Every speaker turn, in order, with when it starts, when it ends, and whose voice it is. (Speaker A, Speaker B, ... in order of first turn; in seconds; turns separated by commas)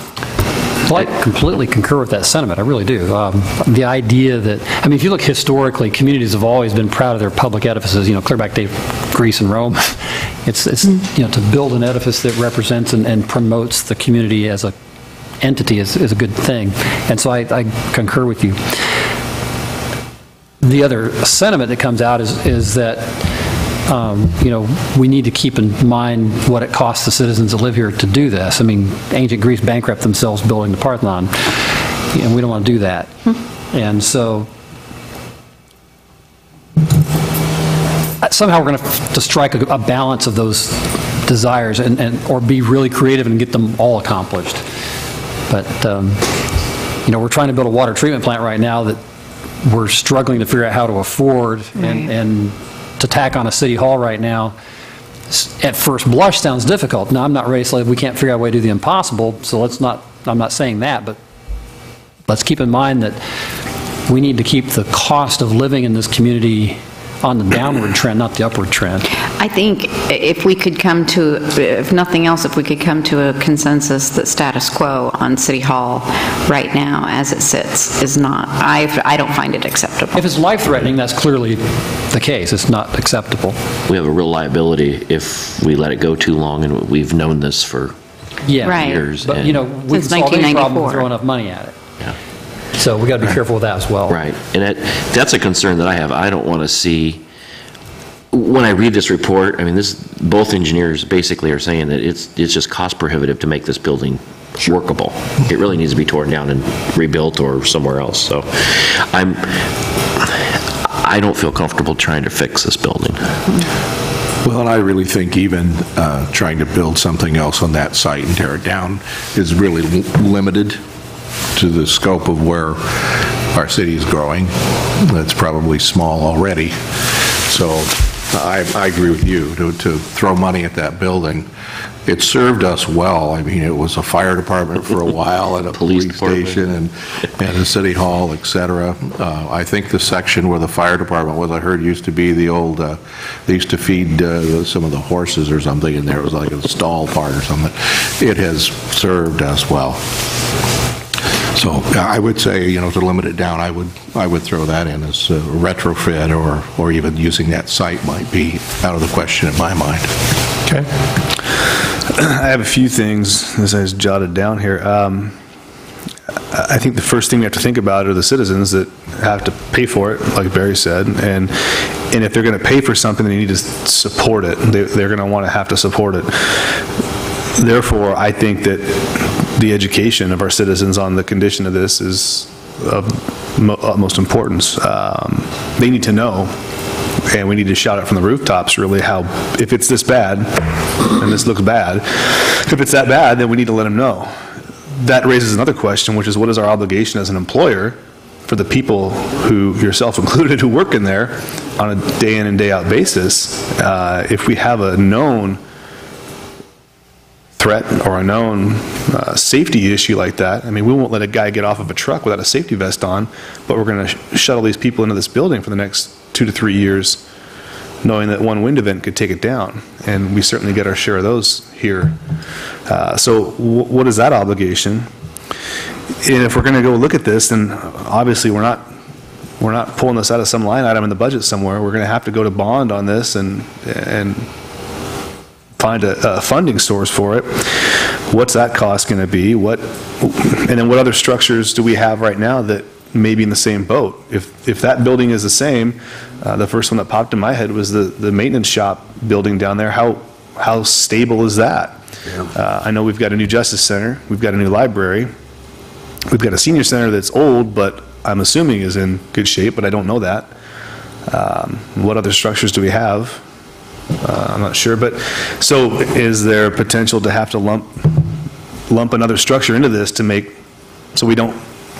Speaker A: 0.9-14.7, Speaker A: 15.4-18.8, Speaker A: 20.6-23.2, Speaker A: 23.9-33.2, Speaker A: 33.7-34.5, Speaker A: 38.2-44.6, Speaker A: 45.5-46.2, Speaker A: 47.0-49.0, Speaker A: 49.6-54.5, Speaker B: 51.8-52.1, Speaker A: 55.3-61.2, Speaker A: 62.3-63.2, Speaker A: 64.1-69.0, Speaker B: 69.4-80.3, Speaker A: 80.1-83.6, Speaker C: 83.9-87.9, Speaker A: 88.5-91.7, Speaker B: 88.6-89.0, Speaker C: 88.6-89.6, Speaker B: 89.9-91.1, Speaker A: 92.8-94.2, Speaker C: 94.1-97.2, Speaker C: 98.3-109.7, Speaker C: 110.2-113.3, Speaker D: 114.4-120.8, Speaker D: 121.5-131.5, Speaker D: 132.0-150.0, Speaker C: 135.7-136.6, Speaker D: 151.5-160.1, Speaker E: 162.1-165.4, Speaker E: 166.5-176.8, Speaker E: 177.6-186.6, Speaker E: 187.3-194.4, Speaker E: 195.0-205.6, Speaker E: 207.6-217.2, Speaker E: 218.0-222.2, Speaker E: 222.8-225.1, Speaker E: 226.2-228.9, Speaker E: 229.6-234.5, Speaker E: 235.8-252.0, Speaker E: 252.5-255.3, Speaker E: 256.3-260.5, Speaker E: 261.2-263.4, Speaker E: 264.2-268.4, Speaker E: 268.9-270.6, Speaker E: 271.1-271.6